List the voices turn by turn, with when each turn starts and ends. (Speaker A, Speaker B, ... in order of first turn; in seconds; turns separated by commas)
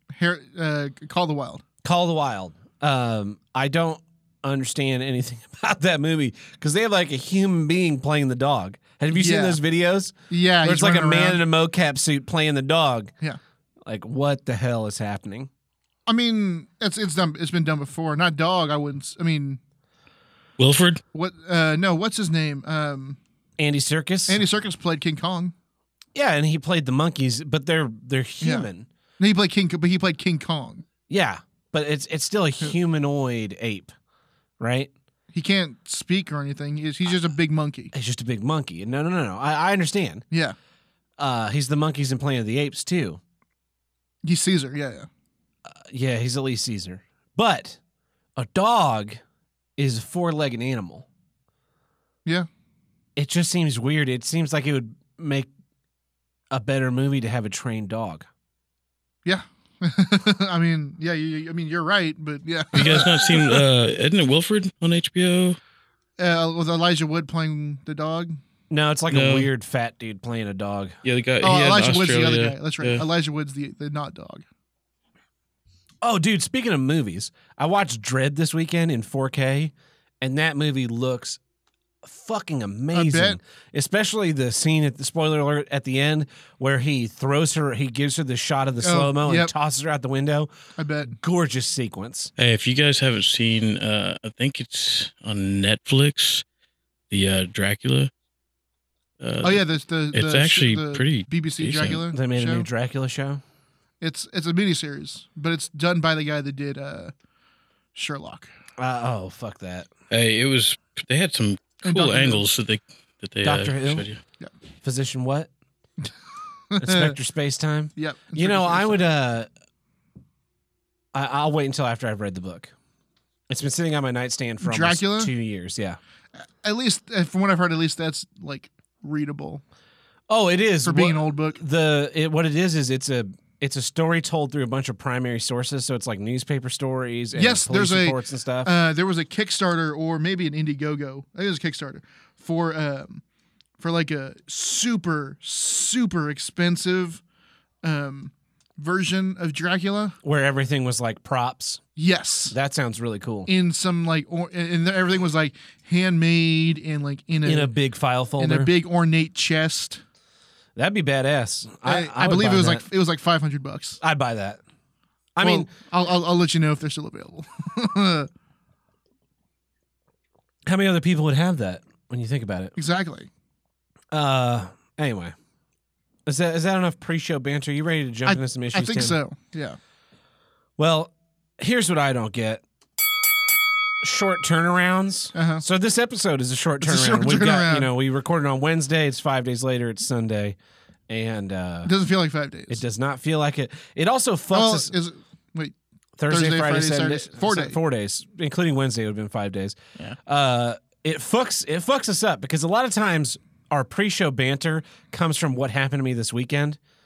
Speaker A: 0.1-1.6, Speaker B: 1.8-13.1, Speaker A: 9.1-9.6, Speaker A: 10.3-11.4, Speaker B: 13.8-15.5, Speaker A: 16.1-19.6, Speaker C: 20.6-21.0, Speaker A: 21.1-23.2, Speaker B: 23.6-24.4, Speaker A: 24.3-25.5, Speaker B: 26.1-28.9, Speaker A: 28.4-28.7, Speaker A: 29.2-30.8, Speaker B: 31.1-33.9, Speaker B: 34.6-34.9, Speaker A: 35.3-37.9, Speaker B: 37.9-40.2, Speaker B: 41.2-43.2, Speaker A: 44.2-45.1, Speaker B: 45.7-47.8, Speaker B: 48.4-49.2, Speaker B: 49.8-51.0, Speaker B: 53.1-55.5, Speaker B: 56.5-58.2, Speaker A: 59.2-63.6, Speaker C: 62.7-65.6, Speaker A: 66.2-68.4, Speaker B: 68.7-70.9, Speaker C: 69.1-69.5, Speaker C: 71.0-73.0, Speaker A: 71.4-74.4, Speaker B: 76.0-81.4, Speaker B: 82.0-90.5, Speaker A: 82.9-83.4, Speaker A: 88.8-89.5, Speaker A: 90.8-91.2, Speaker B: 91.1-92.3, Speaker C: 92.4-96.4, Speaker C: 97.1-98.1, Speaker C: 99.2-99.6, Speaker A: 99.4-102.7, Speaker C: 100.1-102.0, Speaker B: 102.1-103.4, Speaker A: 104.0-107.1, Speaker A: 107.9-108.5, Speaker B: 108.8-109.9, Speaker C: 110.1-114.2, Speaker A: 111.8-112.4, Speaker B: 113.4-114.0, Speaker B: 114.8-115.5, Speaker A: 116.7-117.1, Speaker B: 116.8-119.5, Speaker A: 118.0-119.0, Speaker B: 121.1-122.7, Speaker B: 123.5-126.0, Speaker A: 124.6-125.3, Speaker A: 126.6-129.6, Speaker B: 130.3-138.7, Speaker A: 130.8-131.6, Speaker A: 137.3-143.2, Speaker A: 143.8-147.2, Speaker A: 147.8-150.2, Speaker B: 150.2-151.8, Speaker A: 152.0-152.5, Speaker B: 152.5-153.5, Speaker A: 153.5-157.7, Speaker B: 157.4-158.7, Speaker A: 158.4-160.0, Speaker B: 160.8-162.8, Speaker A: 161.8-164.0, Speaker B: 164.0-164.6, Speaker B: 165.3-165.7, Speaker A: 165.4-168.3, Speaker B: 170.7-172.7, Speaker A: 172.8-173.3, Speaker B: 174.1-175.3, Speaker B: 176.2-179.2, Speaker A: 178.2-179.8, Speaker B: 180.8-182.6, Speaker B: 184.0-190.6, Speaker A: 185.3-185.6, Speaker A: 186.8-187.9, Speaker B: 191.1-191.9, Speaker A: 191.8-192.8, Speaker B: 192.7-194.9, Speaker A: 194.5-195.7, Speaker B: 196.2-206.8, Speaker A: 196.3-197.8